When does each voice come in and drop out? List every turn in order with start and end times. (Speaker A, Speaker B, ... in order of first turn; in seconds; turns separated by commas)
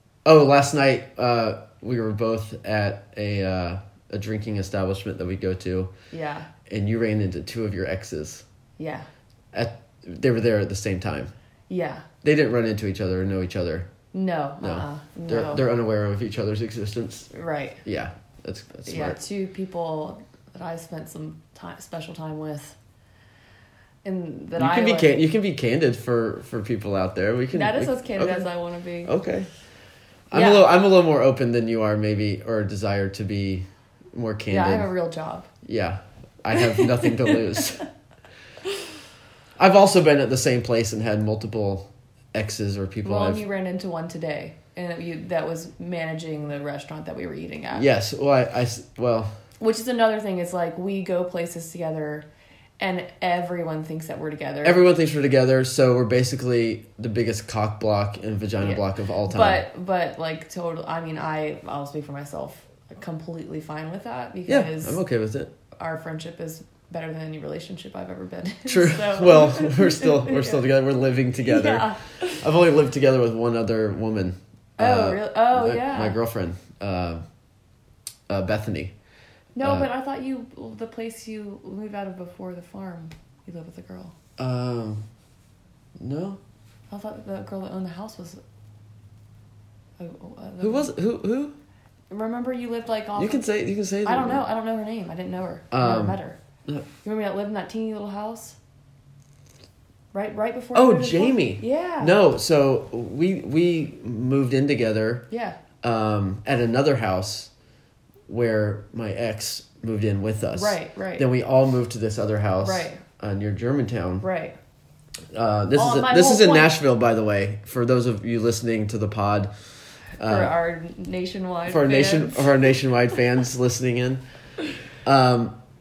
Speaker A: 0.2-5.9, Speaker B: 6.1-6.5, Speaker A: 6.7-8.4, Speaker B: 8.8-9.1, Speaker A: 9.5-11.3, Speaker B: 11.7-12.1, Speaker A: 12.2-13.9, Speaker B: 14.1-15.6, Speaker A: 14.6-17.3, Speaker B: 17.3-17.8, Speaker A: 17.8-19.2, Speaker B: 18.9-22.8, Speaker B: 24.0-25.2, Speaker A: 24.6-28.5, Speaker B: 27.5-29.1, Speaker A: 29.0-29.5, Speaker A: 30.3-34.9, Speaker B: 30.3-30.7, Speaker B: 34.5-35.5, Speaker A: 35.6-37.9, Speaker B: 36.7-37.6, Speaker A: 39.6-43.4, Speaker B: 43.0-47.9, Speaker A: 47.7-49.3, Speaker B: 49.6-52.3, Speaker B: 52.8-54.8, Speaker A: 54.6-59.6, Speaker B: 58.6-65.0, Speaker A: 64.5-65.5, Speaker B: 65.8-70.6, Speaker A: 68.7-77.2, Speaker B: 71.4-72.5, Speaker B: 74.8-76.2, Speaker A: 78.3-78.9, Speaker B: 79.5-84.1, Speaker A: 79.6-79.9, Speaker A: 84.4-85.0, Speaker A: 86.0-86.4, Speaker B: 86.9-88.4, Speaker B: 90.0-90.9, Speaker A: 90.6-91.6, Speaker B: 92.1-93.5, Speaker A: 93.2-94.5, Speaker B: 94.0-96.4, Speaker A: 95.7-96.8, Speaker B: 97.0-98.6, Speaker B: 100.1-102.2, Speaker A: 100.7-105.3, Speaker B: 105.3-105.6, Speaker A: 105.8-107.5, Speaker A: 108.3-114.3, Speaker B: 110.5-111.3, Speaker B: 112.6-113.0, Speaker B: 114.2-114.5, Speaker A: 115.3-119.5, Speaker B: 115.7-116.8, Speaker A: 120.2-120.5, Speaker B: 120.2-122.6, Speaker A: 121.7-124.2, Speaker A: 125.0-125.5